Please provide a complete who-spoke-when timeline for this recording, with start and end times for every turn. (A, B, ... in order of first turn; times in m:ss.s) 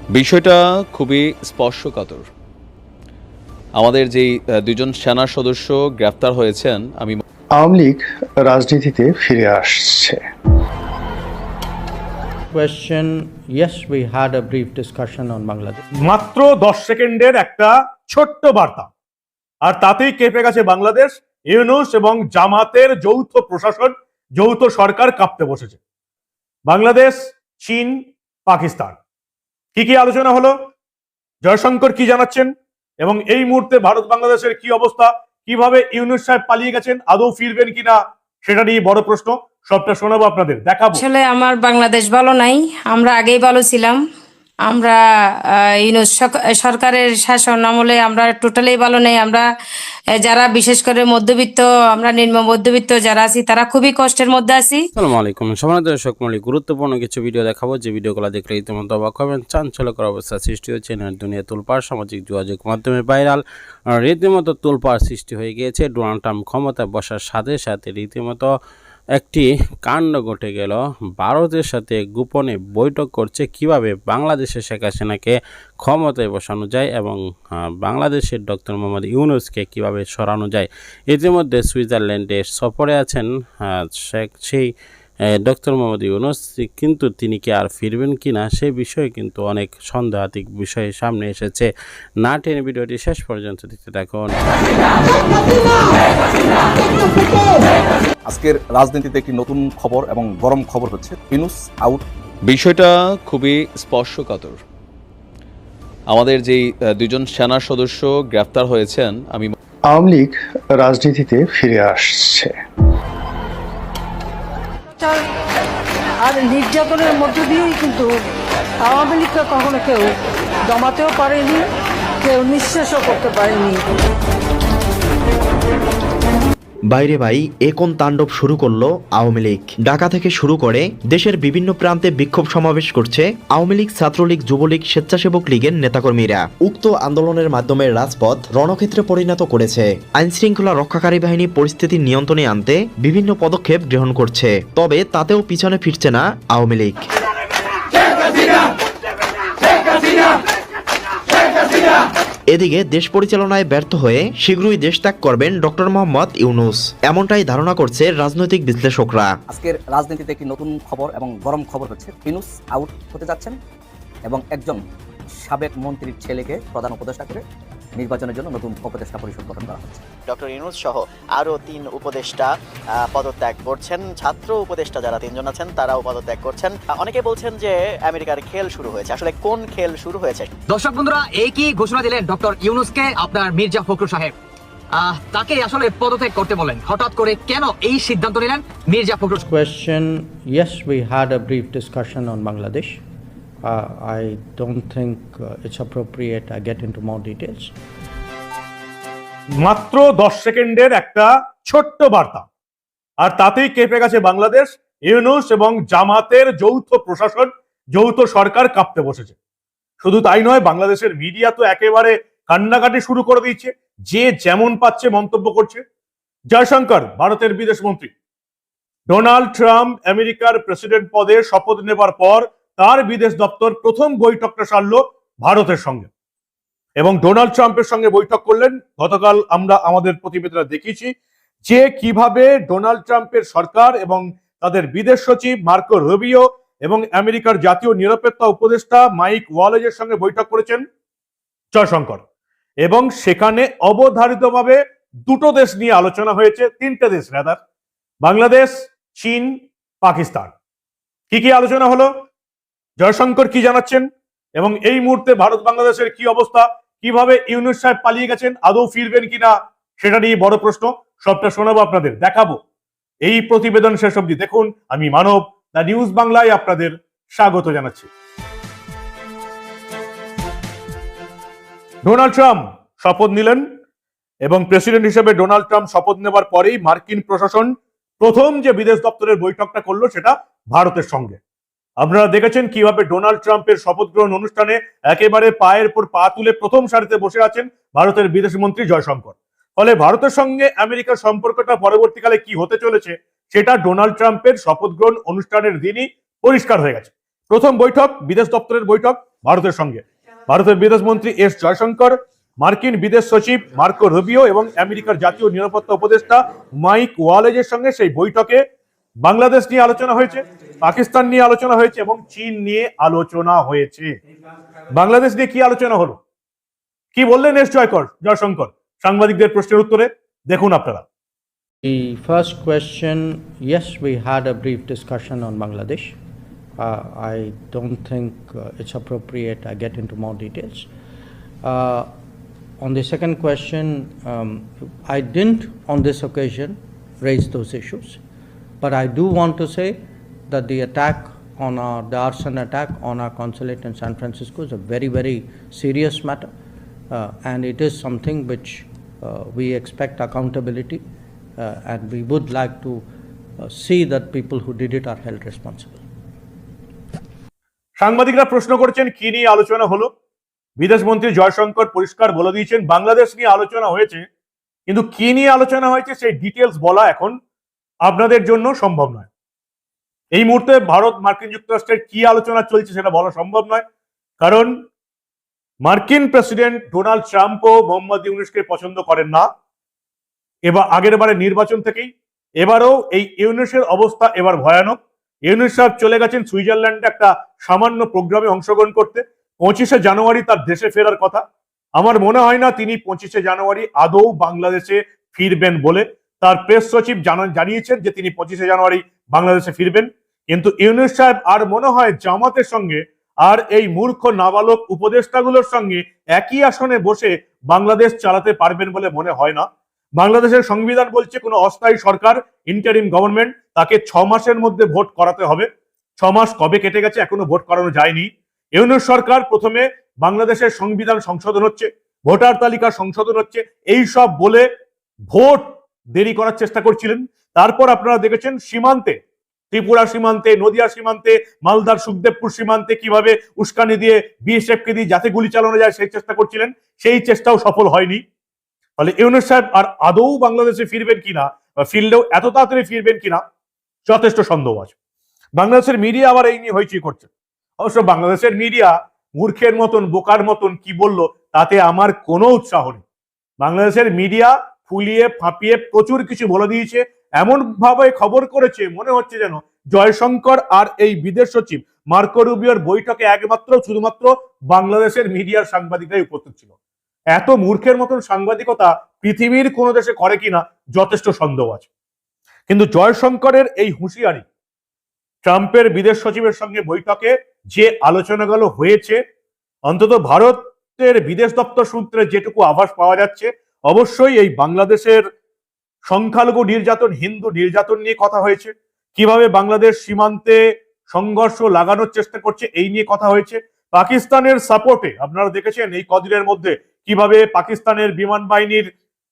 0:00.1-0:02.3 A
0:03.7-0:07.2 A
0:07.5-0:10.2 B
0:12.5-0:15.8 C
0:16.0-0:18.9 D
0:19.6-0:25.8 D
0:26.7-0:29.0 D
0:29.7-0:30.5 D
0:31.4-0:41.0 D
0:40.9-0:44.0 E
0:44.7-0:45.0 E
0:45.8-0:49.4 E
0:50.2-0:54.9 E
0:55.0-1:03.4 F
1:04.0-1:08.5 F
1:09.2-1:24.7 F
1:25.4-1:31.7 F
1:32.2-1:34.3 F
1:38.3-1:42.0 G
1:42.4-1:44.6 A
1:46.1-1:49.5 A
1:49.9-1:52.6 B
1:56.2-1:58.1 H
1:58.8-2:00.1 H
2:00.7-2:01.6 H
2:02.2-2:03.8 H
2:06.9-2:27.0 I
2:32.5-2:39.3 I
2:39.5-2:43.5 G
2:44.3-2:44.8 G
2:45.4-2:47.4 G
2:48.0-2:50.0 G
2:50.3-2:52.5 J
2:53.0-3:00.5 J
3:00.7-3:04.3 K
3:05.0-3:09.4 K
3:09.4-3:13.0 C
3:13.6-3:17.7 C
3:19.6-3:22.4 D
3:23.2-3:29.3 D
3:30.0-3:35.8 D
3:36.5-3:38.1 D
3:39.1-3:46.1 D
3:47.0-3:51.1 D
3:51.6-4:00.8 D
4:01.7-4:02.2 D
4:02.8-4:07.6 D
4:08.2-4:10.5 D
4:11.3-4:12.1 D
4:13.0-4:22.6 D
4:23.2-4:28.1 D
4:32.0-4:33.6 D
4:34.4-4:41.4 D
4:42.0-5:08.6 D
5:09.2-5:14.2 D
5:14.9-5:16.2 D
5:17.1-5:21.0 D
5:21.8-5:26.2 C
5:26.8-5:30.9 C
5:31.6-5:32.1 C
5:32.8-5:38.2 C
5:38.8-5:46.5 C
5:47.1-5:51.0 C
5:51.6-5:53.0 C
5:53.6-5:56.0 C
5:58.0-6:00.1 D
6:00.8-6:04.2 D
6:04.9-6:07.4 D
6:08.0-6:09.3 D
6:10.3-6:13.8 D
6:14.4-6:14.8 D
6:15.8-6:19.4 D
6:20.7-6:31.4 D
6:32.0-6:55.7 D
6:56.2-7:04.7 D
7:05.3-7:09.2 D
7:09.7-7:18.2 D
7:19.0-7:23.4 D
7:24.1-7:24.9 D
7:25.6-7:27.3 D
7:27.8-7:33.0 D
7:33.6-7:46.6 D
7:47.3-7:51.8 D
7:52.7-7:54.4 D
7:55.4-7:59.2 D
7:59.9-8:05.2 D
8:06.0-8:10.6 D
8:11.1-8:18.9 D